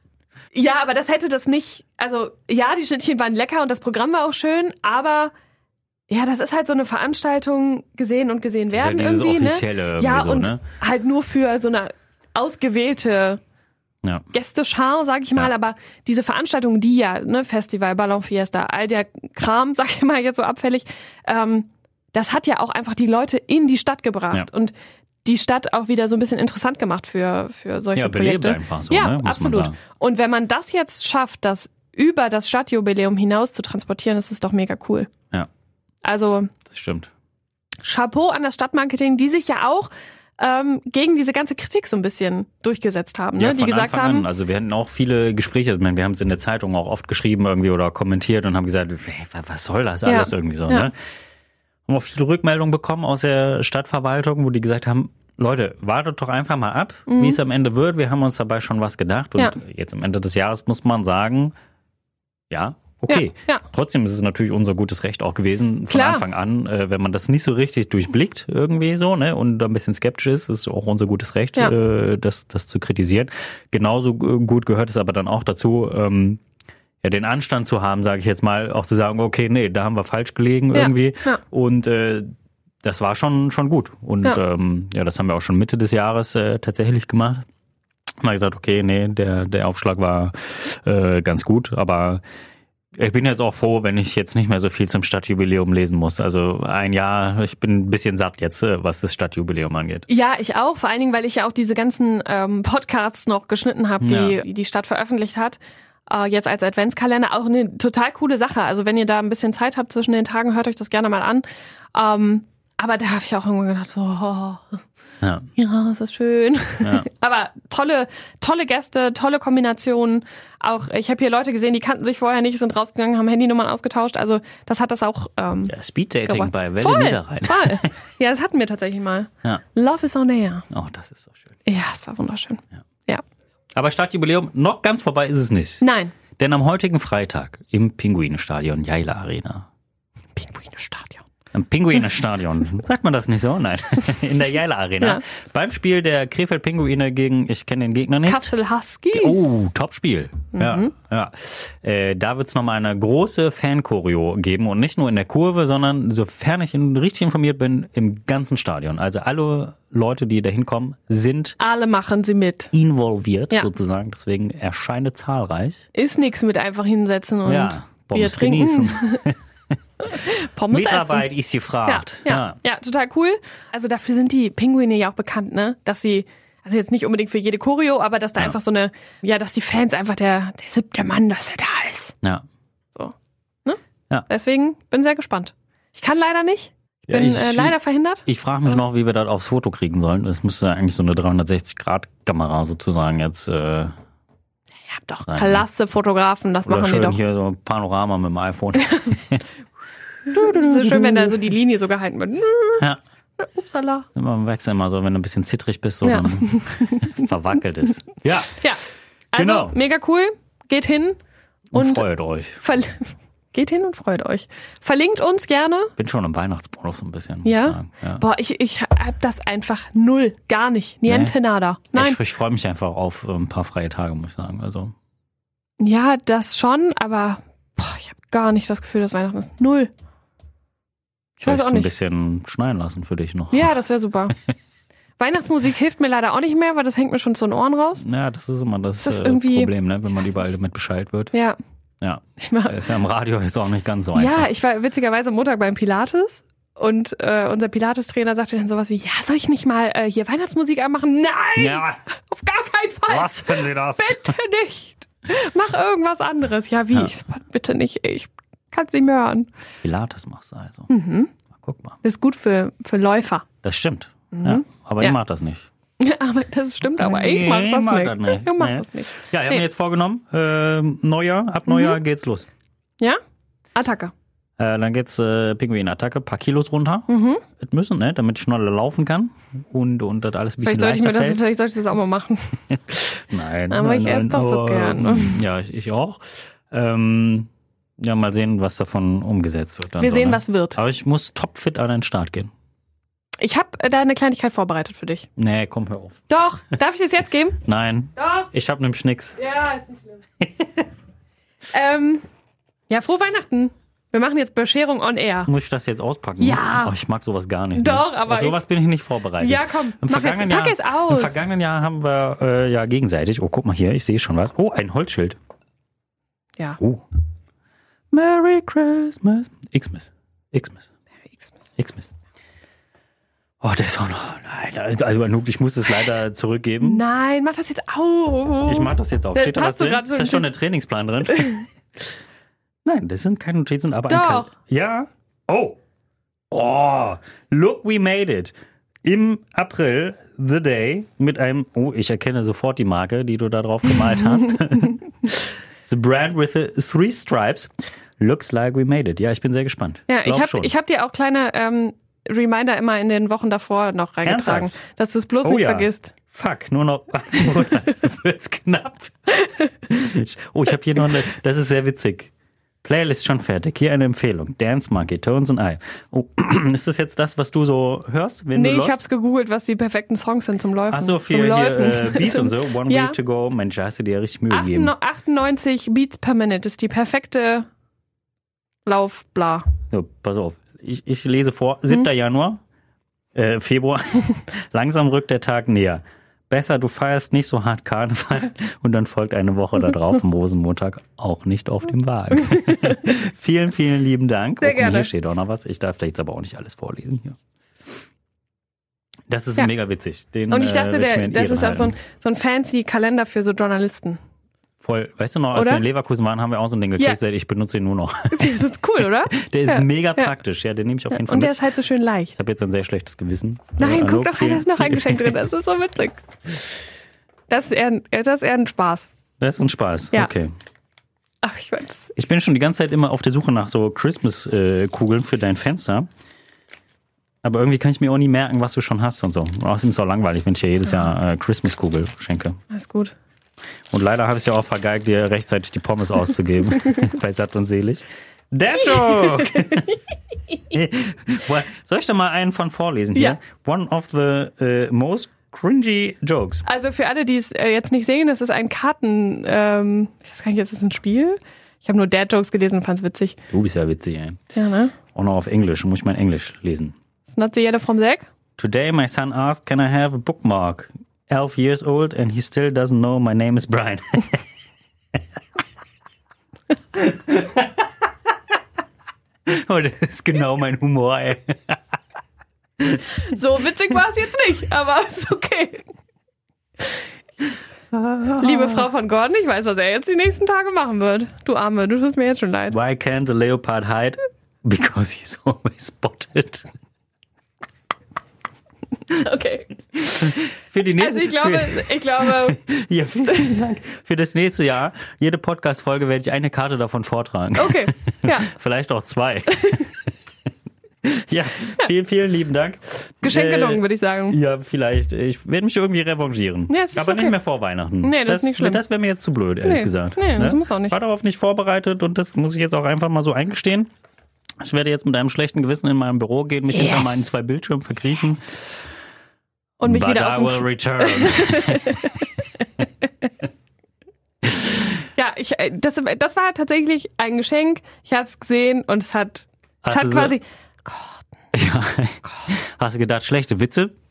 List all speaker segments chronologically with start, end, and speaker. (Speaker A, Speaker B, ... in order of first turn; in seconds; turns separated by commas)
Speaker A: 0.5-5.3, Speaker A: 6.1-13.4, Speaker B: 8.7-10.6, Speaker A: 14.3-24.7, Speaker A: 25.2-35.1, Speaker B: 27.9-29.8, Speaker A: 36.0-36.5, Speaker B: 36.7-37.1, Speaker A: 37.8-44.3, Speaker B: 43.4-50.9, Speaker A: 50.1-50.9, Speaker B: 51.9-61.5, Speaker A: 57.1-57.4, Speaker B: 62.5-76.4, Speaker A: 63.1-63.6, Speaker A: 65.9-66.2, Speaker B: 77.0-82.3, Speaker A: 80.7-81.4, Speaker B: 82.8-87.5, Speaker B: 88.2-92.2, Speaker B: 93.0-100.0, Speaker A: 100.1-114.8, Speaker B: 104.0-104.4, Speaker B: 115.2-115.5, Speaker A: 115.6-125.7, Speaker B: 116.8-117.1, Speaker B: 125.7-127.9, Speaker A: 126.2-130.7, Speaker B: 130.7-131.5, Speaker A: 131.7-133.2, Speaker B: 133.8-135.8, Speaker A: 135.8-136.1, Speaker B: 136.4-139.7, Speaker A: 140.4-141.2, Speaker B: 141.5-148.5, Speaker A: 148.3-149.6, Speaker B: 149.1-161.6, Speaker A: 150.5-150.9, Speaker A: 161.6-162.7, Speaker B: 162.7-165.8, Speaker A: 165.9-169.2, Speaker B: 167.5-169.4, Speaker A: 170.0-171.3, Speaker B: 170.7-172.6, Speaker A: 171.9-182.2, Speaker A: 182.9-188.2, Speaker B: 187.1-193.9, Speaker A: 194.9-197.2, Speaker B: 195.2-195.6, Speaker B: 196.7-199.4, Speaker A: 198.8-199.2, Speaker B: 200.3-201.4, Speaker A: 200.3-202.9, Speaker A: 203.4-204.1, Speaker B: 204.2-208.7, Speaker A: 206.0-207.2, Speaker A: 209.3-211.2, Speaker B: 209.3-209.8, Speaker B: 211.7-212.6, Speaker A: 211.7-212.1, Speaker A: 212.6-215.9, Speaker B: 216.0-218.2, Speaker A: 217.4-222.2, Speaker B: 221.1-221.3, Speaker B: 221.9-224.9, Speaker A: 225.8-229.9, Speaker A: 231.4-231.9, Speaker B: 231.4-233.7, Speaker A: 233.5-234.4, Speaker A: 235.2-238.1, Speaker B: 238.0-241.3, Speaker A: 239.0-239.7, Speaker B: 242.0-244.5, Speaker A: 242.4-242.8, Speaker A: 244.2-259.5, Speaker B: 251.6-252.0, Speaker B: 253.1-254.3, Speaker B: 259.8-260.9, Speaker A: 260.9-261.3, Speaker B: 261.5-262.0, Speaker A: 262.0-263.5, Speaker B: 263.6-265.7, Speaker A: 264.3-265.2, Speaker A: 266.0-269.6, Speaker B: 267.0-272.5, Speaker A: 271.7-272.0, Speaker A: 273.8-274.1, Speaker B: 274.6-281.4, Speaker A: 277.1-277.4, Speaker A: 280.6-283.1, Speaker B: 282.7-292.5, Speaker A: 283.7-285.4, Speaker A: 290.0-290.8, Speaker A: 293.4-295.3, Speaker B: 295.4-296.3, Speaker A: 296.3-297.6, Speaker B: 297.6-299.4, Speaker A: 298.2-298.5, Speaker A: 299.4-300.2, Speaker B: 300.4-300.9, Speaker A: 301.7-302.2, Speaker A: 302.9-305.5, Speaker B: 305.5-315.4, Speaker A: 306.4-306.9, Speaker A: 307.8-308.6, Speaker A: 309.4-311.4, Speaker B: 318.1-320.9, Speaker B: 321.8-322.1, Speaker B: 323.6-327.0, Speaker A: 326.8-330.5, Speaker B: 328.7-331.7, Speaker B: 332.9-335.8, Speaker A: 334.1-334.5, Speaker B: 336.5-350.7, Speaker A: 350.1-356.1, Speaker B: 354.2-354.7, Speaker B: 355.4-362.3, Speaker B: 362.8-369.0, Speaker A: 368.6-373.2, Speaker B: 370.9-374.9, Speaker A: 374.5-377.7, Speaker A: 378.9-379.7, Speaker B: 379.9-382.6, Speaker B: 383.3-397.4, Speaker A: 394.6-395.1, Speaker B: 399.3-402.0, Speaker A: 400.5-404.2, Speaker B: 404.8-408.6, Speaker A: 405.5-405.8, Speaker A: 408.3-410.3, Speaker B: 409.3-411.6, Speaker A: 411.1-412.4, Speaker B: 412.4-415.4, Speaker A: 413.8-416.2, Speaker A: 417.5-419.1, Speaker B: 419.4-420.5, Speaker A: 421.4-422.1, Speaker B: 422.2-426.1, Speaker B: 427.4-432.6, Speaker A: 432.7-433.1, Speaker B: 433.9-440.0, Speaker A: 439.2-439.9, Speaker B: 440.6-446.6, Speaker A: 446.6-453.4, Speaker B: 453.5-454.4, Speaker A: 454.5-454.9, Speaker B: 455.1-456.9, Speaker A: 457.3-458.3, Speaker B: 458.6-464.4, Speaker B: 466.9-468.3, Speaker B: 469.5-471.8, Speaker B: 472.8-473.1, Speaker A: 473.1-475.9, Speaker B: 477.9-478.9, Speaker A: 478.4-482.8, Speaker B: 482.7-486.7, Speaker A: 489.1-490.4, Speaker B: 490.1-500.1, Speaker A: 491.0-492.6, Speaker A: 497.6-498.5, Speaker A: 499.5-499.9, Speaker B: 501.0-513.9, Speaker A: 503.2-504.4, Speaker A: 506.7-507.4, Speaker A: 508.0-508.8, Speaker A: 509.6-511.0, Speaker B: 514.6-518.8, Speaker A: 516.7-517.2, Speaker A: 519.8-522.7, Speaker B: 519.8-522.3, Speaker B: 524.5-524.8, Speaker A: 525.2-531.2, Speaker B: 529.8-530.4, Speaker B: 531.5-533.9